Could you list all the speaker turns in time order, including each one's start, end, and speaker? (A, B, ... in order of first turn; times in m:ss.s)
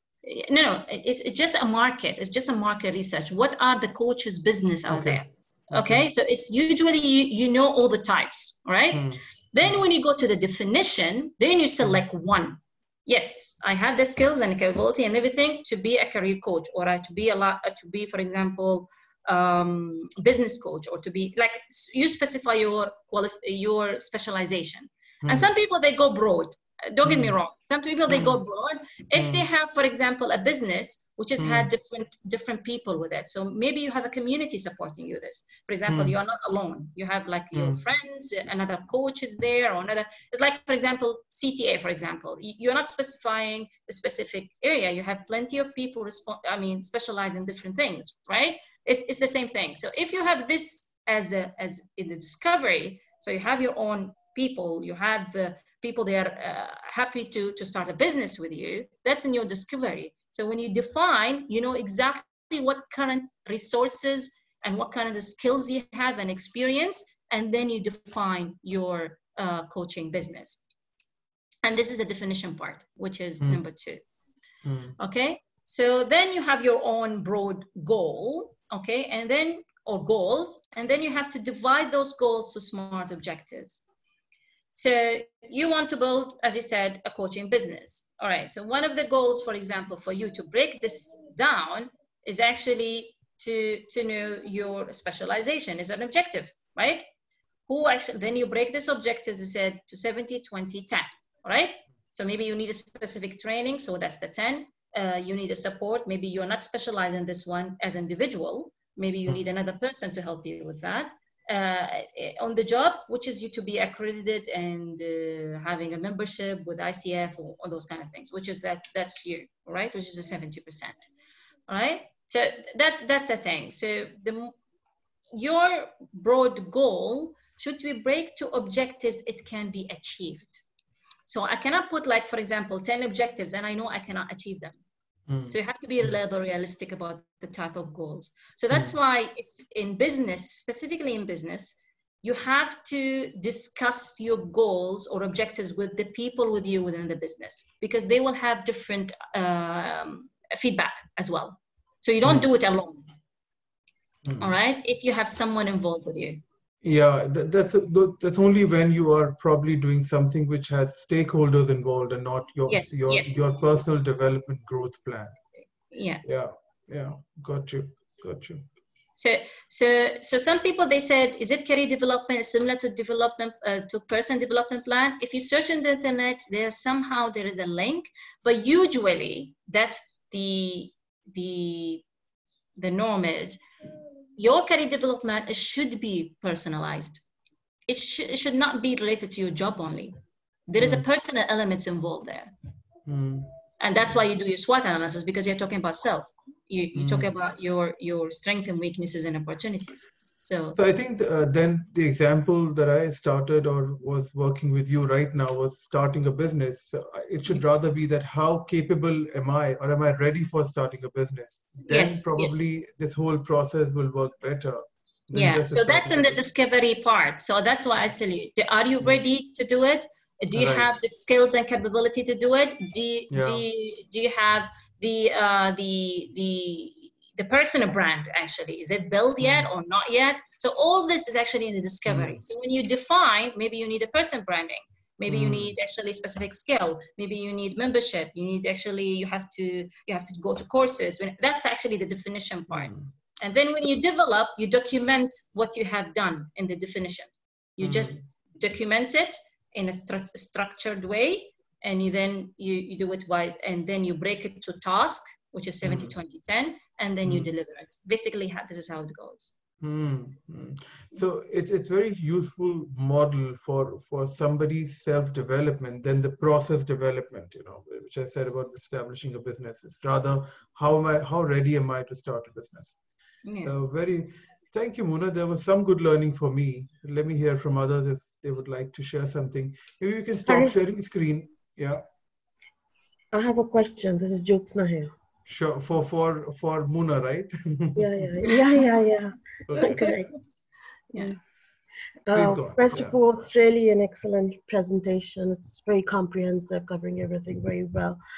0:00.2-1:10.6 A
0:04.9-0:06.1 B
0:08.9-0:09.8 B
0:25.2-0:25.5 B
0:27.0-0:27.4 B
0:28.1-0:28.4 B
0:29.1-0:29.5 B
0:31.4-0:31.7 B
0:35.9-0:36.2 B
0:37.5-0:37.8 B
1:11.6-1:14.0 A
1:14.6-1:15.0 B
1:15.0-1:23.8 A
1:24.7-1:37.1 A
1:37.7-2:01.1 A
2:01.7-2:04.5 A
2:05.3-2:10.6 A
2:11.3-2:14.8 A
2:15.3-2:16.1 B
2:15.5-2:33.1 A
2:34.2-2:34.5 B
2:34.4-2:36.4 A
2:36.8-2:45.4 B
2:42.7-2:43.4 A
2:45.9-2:46.2 A
2:46.2-2:48.6 B
2:49.2-3:02.0 A
3:02.8-3:03.6 A
3:04.4-3:07.2 A
3:07.9-3:10.2 A
3:10.7-3:12.5 A
3:13.1-3:13.6 B
3:13.8-3:20.8 A
3:16.9-3:17.3 B
3:20.8-3:36.4 B
3:31.9-3:32.6 A
3:35.3-4:19.5 A
3:40.5-3:40.9 B
3:43.3-3:43.7 B
3:49.4-3:49.7 B
3:52.1-3:52.4 B
3:55.3-3:55.7 B
4:02.7-4:03.1 B
4:07.8-4:08.2 B
4:15.8-4:16.1 B
4:19.8-4:33.0 B
4:33.4-4:33.7 A
4:33.6-4:42.0 B
4:40.5-4:40.8 C
4:43.3-4:45.1 C
4:45.5-4:48.1 B
4:48.0-4:50.3 C
4:49.7-4:50.1 B
4:49.8-4:50.1 A
4:52.3-4:58.2 C
4:52.3-4:53.2 B